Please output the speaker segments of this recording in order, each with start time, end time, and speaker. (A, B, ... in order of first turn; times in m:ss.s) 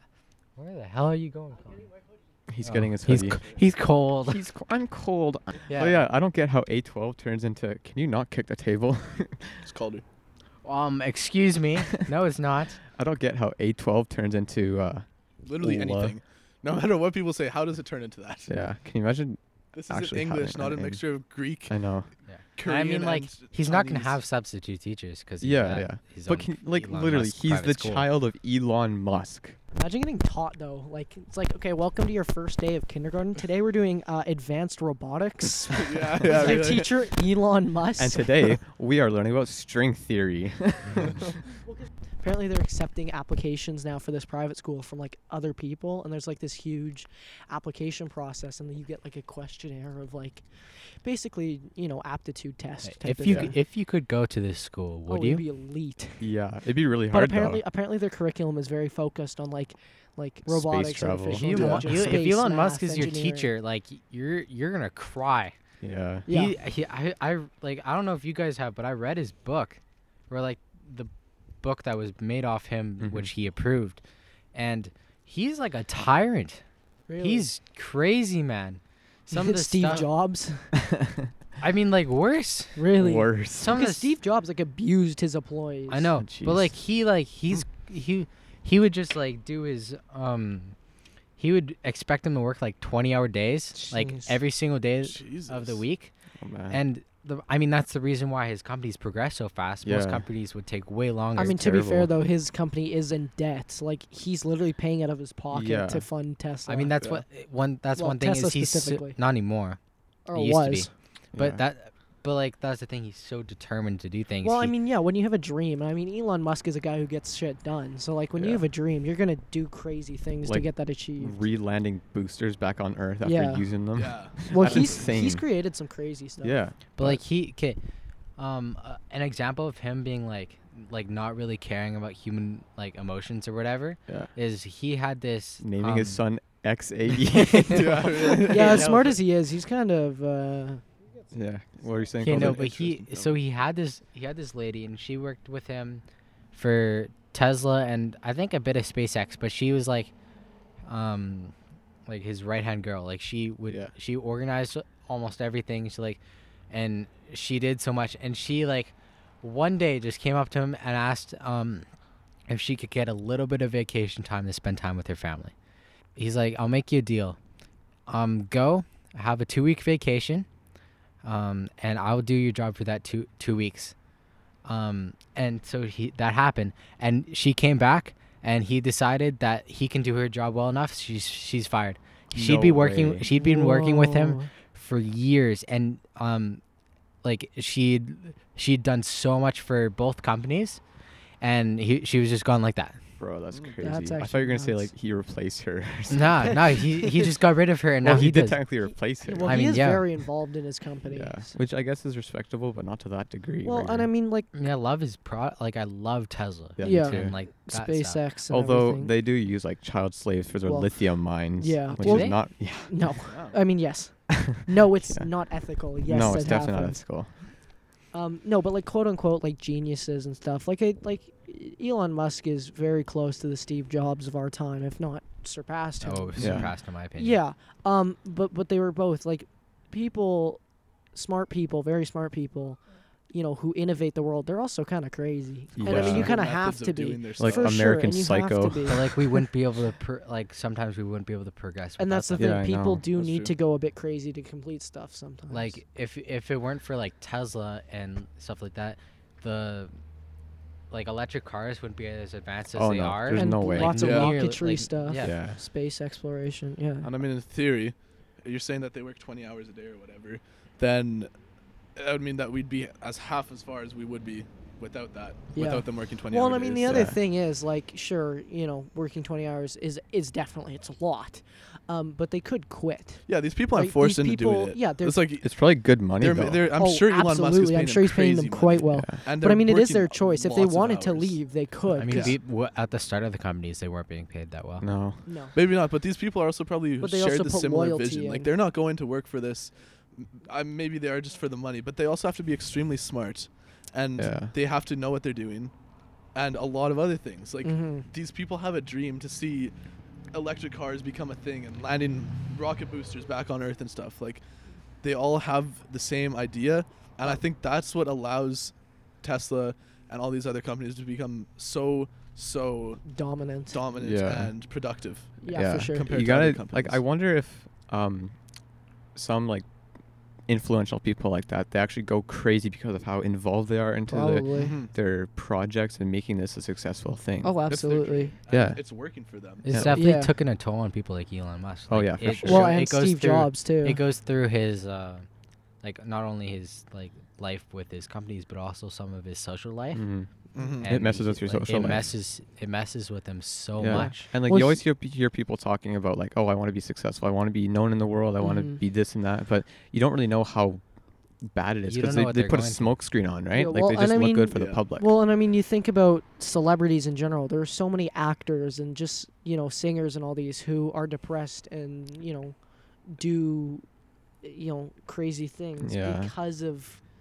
0:00.6-0:01.9 A
0:02.5-0:03.4 B
0:02.6-0:04.4 A
0:04.3-0:09.7 B
0:05.7-0:06.0 A
0:09.6-0:10.0 C
0:10.6-0:12.8 A
0:12.9-0:15.1 B
0:15.4-0:18.6 C
0:15.6-0:16.2 B
0:18.5-0:21.0 B
0:19.7-0:21.8 C
0:21.7-0:22.1 B
0:22.3-0:28.1 A
0:22.6-0:24.2 C
0:25.4-0:29.6 B
0:29.8-0:38.3 D
0:35.7-0:36.9 C
0:38.0-0:41.3 B
0:41.4-0:50.5 D
0:51.0-0:53.5 D
0:52.8-0:55.4 A
0:53.2-0:53.5 B
0:55.1-0:56.2 D
0:56.2-0:57.6 B
0:57.1-1:03.5 D
1:00.5-1:02.2 B
1:01.3-1:05.5 A
1:05.8-1:06.3 B
1:06.3-1:06.5 D
1:06.3-1:11.1 A
1:11.6-1:14.0 A
1:13.0-1:13.3 B
1:14.5-1:16.6 A
1:17.1-1:17.5 D
1:17.2-1:20.1 A
1:19.3-1:20.7 D
1:20.8-1:21.3 B
1:21.6-1:22.8 A
1:22.8-1:26.1 D
1:23.0-1:23.7 B
1:23.6-1:24.2 A
1:25.9-1:30.8 A
1:26.2-1:26.7 B
1:31.4-1:36.1 A
1:33.9-1:34.2 D
1:35.0-1:35.8 C
1:36.4-1:36.8 B
1:36.7-1:41.6 A
1:39.8-1:40.3 B
1:41.4-1:47.0 D
1:41.4-1:42.1 B
1:45.5-1:46.1 B
1:46.7-1:49.8 A
1:48.0-1:49.2 D
1:50.3-1:50.9 D
1:50.3-1:54.7 A
1:51.3-1:51.6 B
1:54.4-2:01.4 D
1:58.4-1:58.6 B
2:00.4-2:05.4 B
2:03.2-2:03.7 D
2:03.9-2:05.1 C
2:04.5-2:06.6 D
2:06.4-2:07.2 B
2:07.0-2:07.8 A
2:08.4-2:16.2 A
2:14.1-2:14.3 B
2:15.6-2:18.2 B
2:17.4-2:19.1 A
2:17.7-2:19.2 C
2:18.5-2:20.8 D
2:21.3-2:22.6 B
2:22.2-2:30.1 A
2:22.2-2:23.4 C
2:30.9-2:31.5 A
2:32.1-2:36.2 A
2:33.7-2:33.9 B
2:36.7-2:41.9 A
2:42.5-2:45.5 A
2:46.2-2:47.4 A
2:48.1-2:50.5 A
2:51.2-2:54.0 A
2:54.6-3:06.6 A
3:02.3-3:03.3 B
3:03.3-3:04.5 D
3:07.2-3:10.8 A
3:11.4-3:13.0 A
3:13.2-3:16.6 B
3:13.5-3:13.8 C
3:13.8-3:14.9 D
3:16.1-3:18.6 A
3:17.0-3:17.3 D
3:18.0-3:19.7 B
3:19.2-3:21.6 D
3:19.4-3:20.1 A
3:21.1-3:24.1 B
3:23.6-3:24.5 D
3:24.5-3:28.2 A
3:26.8-3:27.4 B
3:26.8-3:29.1 D
3:28.5-3:32.9 B
3:30.6-3:37.0 D
3:32.0-3:32.4 A
3:33.2-3:33.6 C
3:34.3-3:35.3 B
3:36.0-3:37.3 B
3:36.1-3:36.6 A
3:38.1-3:59.1 D
3:46.0-3:47.4 A
3:46.4-3:46.7 B
3:55.8-3:56.4 B
3:55.8-3:57.9 C
3:57.4-3:59.1 B
3:58.9-4:02.6 A
4:02.0-4:05.8 D
4:02.4-4:03.0 B
4:03.1-4:03.6 C
4:05.5-4:10.0 A
4:10.9-4:15.4 A
4:12.7-4:14.2 B
4:13.3-4:17.1 D
4:14.0-4:14.3 C
4:15.2-4:15.6 B
4:17.0-4:21.3 C
4:22.0-4:27.1 C
4:25.6-4:35.2 D
4:26.9-4:27.2 B
4:33.3-4:35.5 C
4:35.4-4:36.7 B
4:36.1-4:41.4 C
4:36.8-4:42.4 D
4:38.9-4:39.2 B
4:41.9-4:44.9 A
4:42.1-4:42.4 C
4:44.8-4:45.2 B
4:45.3-4:45.5 D
4:45.5-4:55.7 C
4:47.0-4:48.5 D
4:54.2-4:54.5 B
4:56.3-4:59.7 C
4:57.6-4:58.1 D
5:00.3-5:04.4 C
5:05.0-5:13.1 C
5:13.1-5:13.8 D
5:13.7-5:17.0 C
5:14.0-5:14.6 B
5:15.4-5:16.1 D
5:15.4-5:18.4 B
5:19.2-5:19.7 B
5:20.5-5:27.7 B
5:24.1-5:24.8 D
5:24.5-5:24.9 C
5:27.4-5:28.3 D
5:27.7-5:29.7 C
5:28.5-5:28.8 B
5:29.6-5:35.3 A
5:29.7-5:30.0 B
5:29.9-5:30.3 D
5:31.9-5:32.8 B
5:32.4-5:34.0 D
5:35.8-5:40.1 A
5:39.9-5:40.3 B
5:40.6-5:40.9 C
5:40.8-5:44.3 A
5:40.8-5:42.2 B
5:43.8-5:50.8 B
5:43.9-5:44.8 D
5:48.4-5:48.8 D
5:51.4-5:55.1 B
5:51.9-5:52.9 A
5:53.5-6:03.8 D
5:54.5-5:54.8 C
6:04.4-6:07.0 D
6:05.8-6:06.3 B